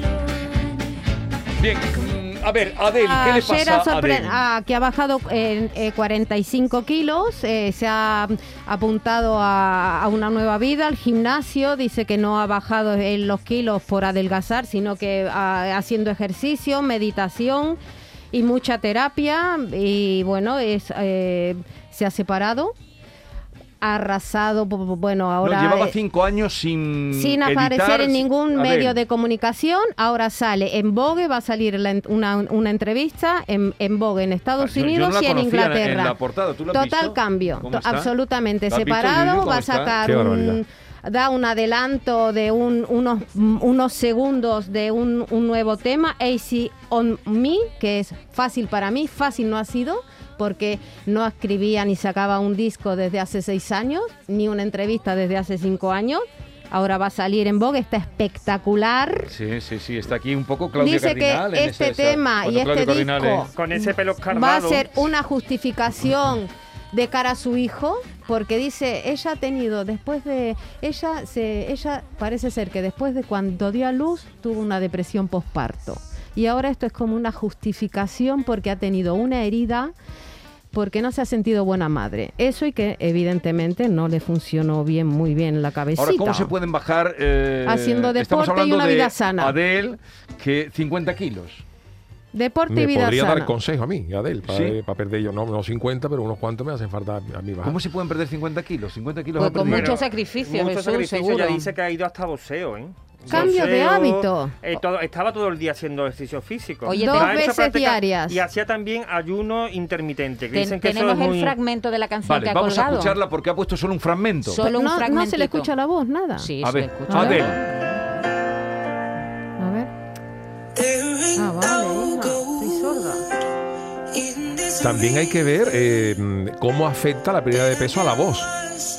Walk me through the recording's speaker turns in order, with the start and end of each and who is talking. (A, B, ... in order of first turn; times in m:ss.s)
0:01.6-0:04.4 A
0:03.0-0:17.8 B
0:18.3-0:22.7 B
0:23.8-0:26.0 B
0:25.4-0:29.0 A
0:27.1-0:36.2 B
0:34.6-0:38.2 A
0:36.7-0:59.3 B
0:38.7-0:40.0 A
0:40.0-0:40.6 C
0:59.3-1:03.5 A
1:00.8-1:19.9 B
1:03.6-1:04.9 D
1:20.7-1:26.5 B
1:25.9-1:31.6 A
1:27.6-1:29.6 B
1:32.3-1:33.5 B
1:32.7-1:37.8 C
1:34.4-1:34.8 A
1:37.6-1:40.0 A
1:39.4-1:41.7 E
1:39.7-1:51.5 D
1:43.3-1:44.6 B
1:46.8-1:47.4 E
1:46.9-1:48.4 B
1:50.5-1:53.2 E
1:52.2-1:54.6 A
1:54.5-1:55.7 E
1:54.5-1:56.5 B
1:56.4-1:58.2 E
1:56.6-1:57.6 A
1:57.1-1:57.5 B
1:59.6-1:59.9 B
2:01.4-2:03.2 B
2:04.7-2:08.5 C